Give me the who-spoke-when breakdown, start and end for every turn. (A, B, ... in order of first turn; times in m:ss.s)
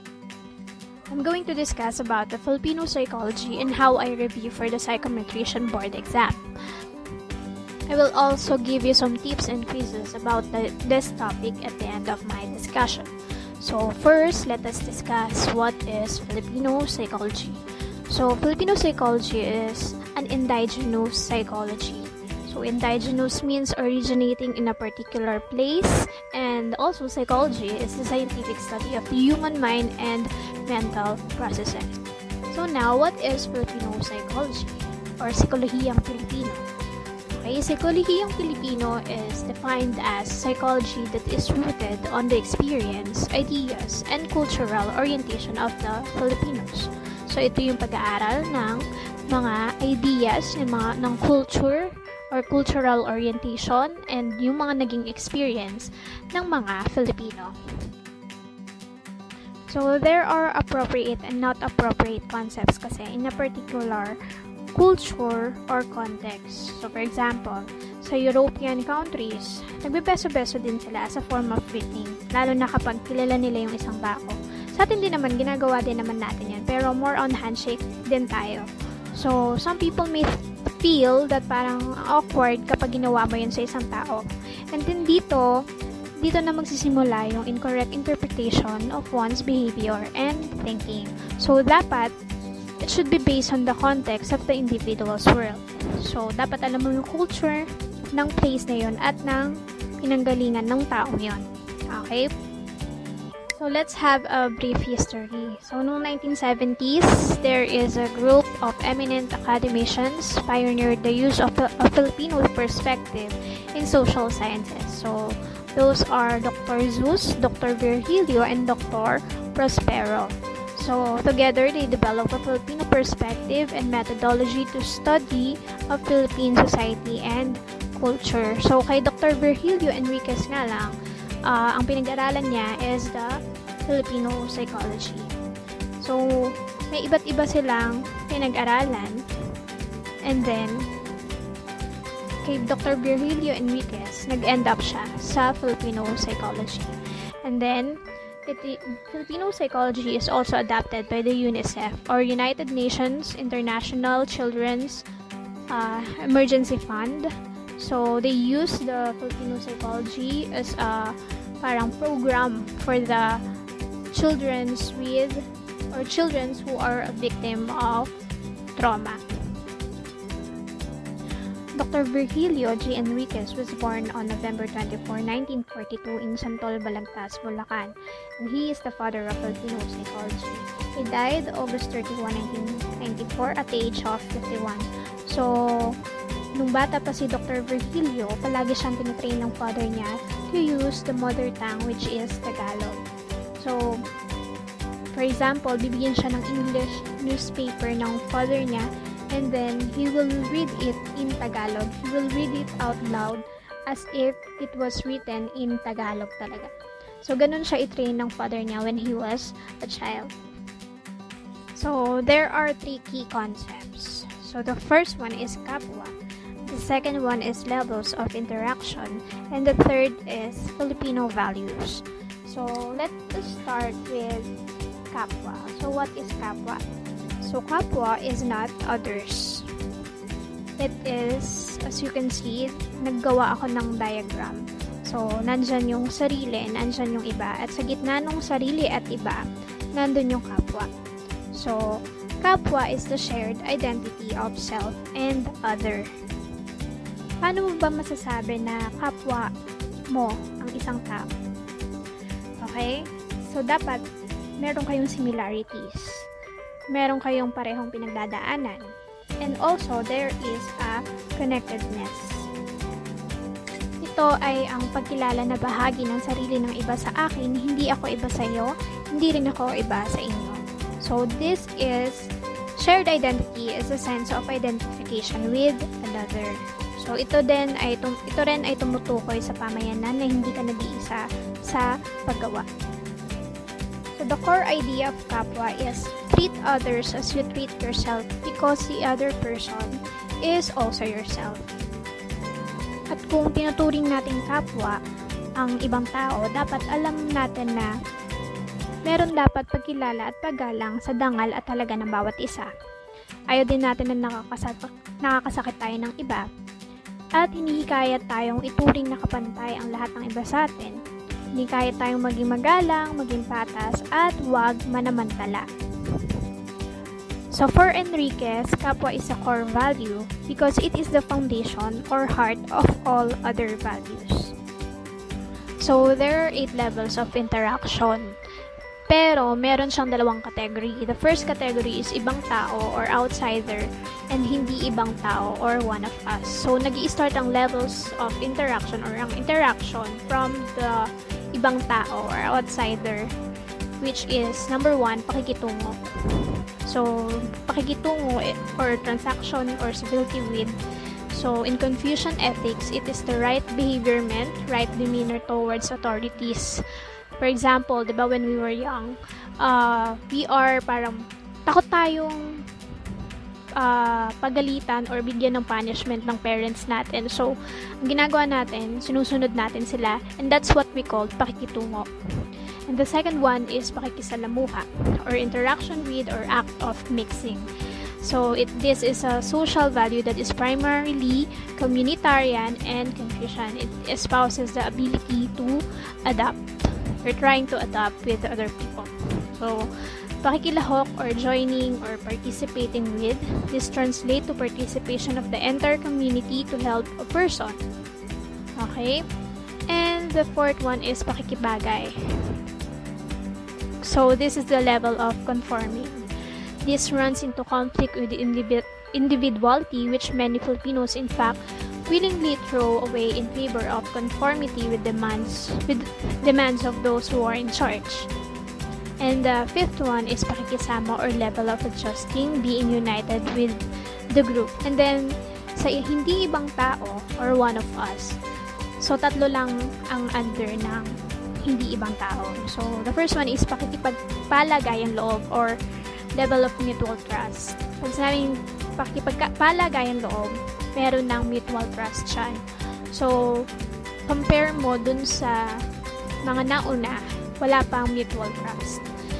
0:01.1-0:06.4 A
0:07.9-0:32.0 A
0:32.5-0:36.6 A
0:37.3-0:57.5 A
0:59.7-1:04.2 A
1:04.7-1:25.5 A
1:26.2-1:32.1 A
1:32.8-1:42.3 A
1:43.5-2:15.3 A
2:16.0-2:19.2 A
2:20.2-2:20.9 A
2:22.4-2:35.0 A
2:35.7-2:43.4 A
2:44.1-2:48.1 A
2:48.8-2:49.2 A
2:51.8-3:06.0 A
3:06.6-3:13.0 A
3:13.6-3:14.0 A
3:15.1-3:26.7 A
3:27.2-3:30.3 A
3:31.8-3:36.1 A
3:36.7-3:44.5 A
3:45.1-3:46.8 A
3:47.4-3:49.7 A
3:50.8-3:59.4 A
4:00.0-4:00.9 A
4:01.5-4:01.8 A
4:02.4-4:06.1 A
4:07.4-4:09.5 A
4:10.1-4:11.3 A
4:12.6-4:14.0 A
4:14.6-4:16.2 A
4:16.9-4:18.9 A
4:19.4-4:22.5 A
4:24.0-4:32.3 A
4:32.8-4:42.6 A
4:44.1-4:51.7 A
4:53.1-4:55.0 A
4:55.6-4:57.9 A
4:59.1-5:02.7 A
5:03.5-5:06.4 A
5:07.4-5:11.0 A
5:11.6-5:16.2 A
5:17.5-5:24.5 A
5:25.8-5:28.3 A
5:29.1-5:43.3 A
5:44.0-5:50.7 A
5:51.3-5:56.8 A
5:57.4-6:02.4 A
6:03.8-6:12.1 A
6:12.9-6:17.7 A
6:18.2-6:37.8 A
6:38.8-6:39.2 A
6:39.9-6:42.6 A
6:44.0-6:58.3 A
6:59.2-7:03.8 A
7:04.3-7:08.4 A
7:09.0-7:11.1 A
7:11.6-7:15.8 A
7:16.4-7:23.7 A
7:24.3-7:25.6 A
7:26.4-7:29.0 A